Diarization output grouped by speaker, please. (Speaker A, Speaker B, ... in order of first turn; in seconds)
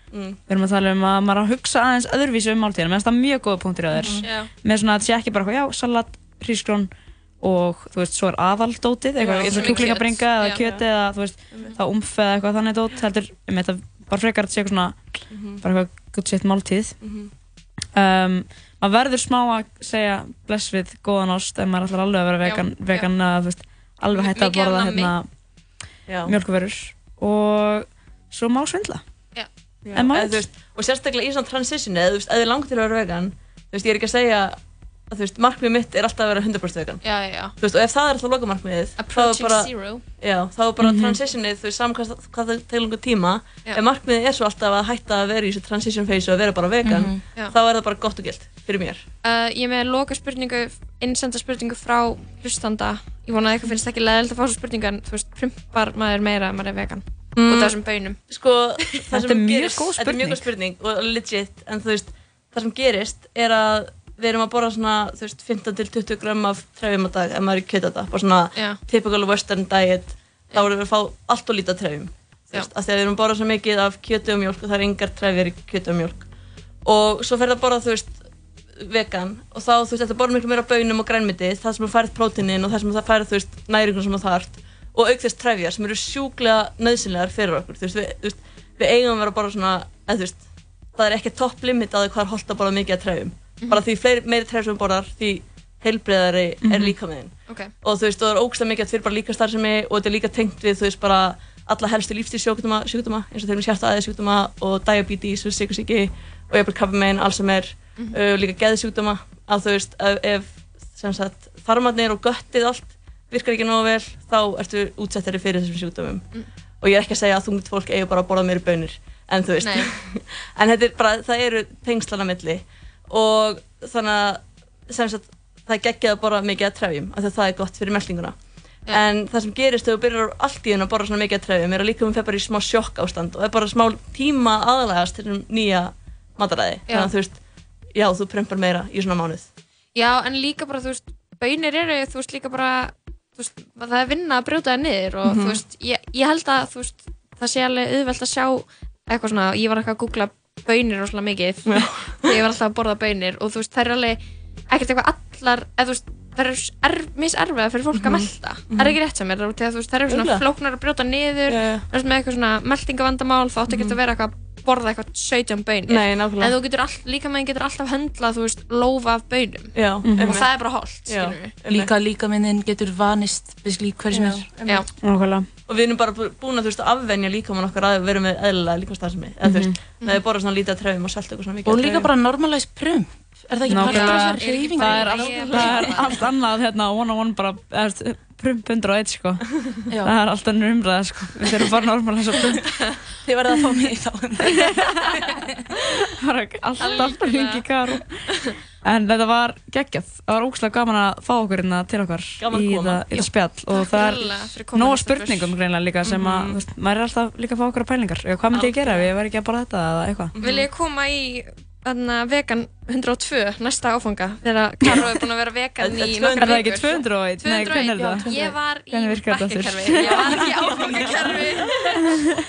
Speaker A: 0.1-0.4, 4.0-4.2, 9.2-10.0, 10.6-10.8, 11.5-11.8, 15.3-15.6, 17.0-17.3, 26.1-26.4, 29.9-34.6, 35.1-49.1, 57.4-76.3, 76.8-90.4, 91.0-137.4, 137.9-139.5, 145.2-145.6, 151.7-152.4, 157.9-159.0, 160.1-160.4, 161.5-161.8, 163.7-164.0, 165.9-166.6, 169.7-171.9, 175.7-182.1, 202.4-203.1, 206.0-206.6, 208.6-208.9, 210.3-210.7, 215.8-216.7, 218.1-218.5, 219.9-221.4
Speaker B: 0.5-6.9, 7.4-17.0, 17.9-25.3, 26.2-29.0, 29.9-30.4, 40.8-41.2, 59.1-60.4, 96.6-97.0, 170.0-170.4, 175.0-175.5, 179.4-179.8, 183.7-189.4, 190.0-192.7, 194.5-195.2, 196.2-198.1, 198.8-210.3, 216.3-221.6
Speaker C: 4.0-4.5, 9.3-10.7, 22.4-23.1, 24.1-25.1, 37.0-37.5, 39.0-40.0, 49.2-58.2, 97.5-97.7, 119.6-119.9, 136.9-137.1, 139.9-171.6, 183.7-186.3, 196.8-197.7, 203.7-205.6, 208.5-209.1, 210.4-222.3
Speaker D: 46.9-47.2, 171.7-174.7, 181.7-185.8, 193.3-194.7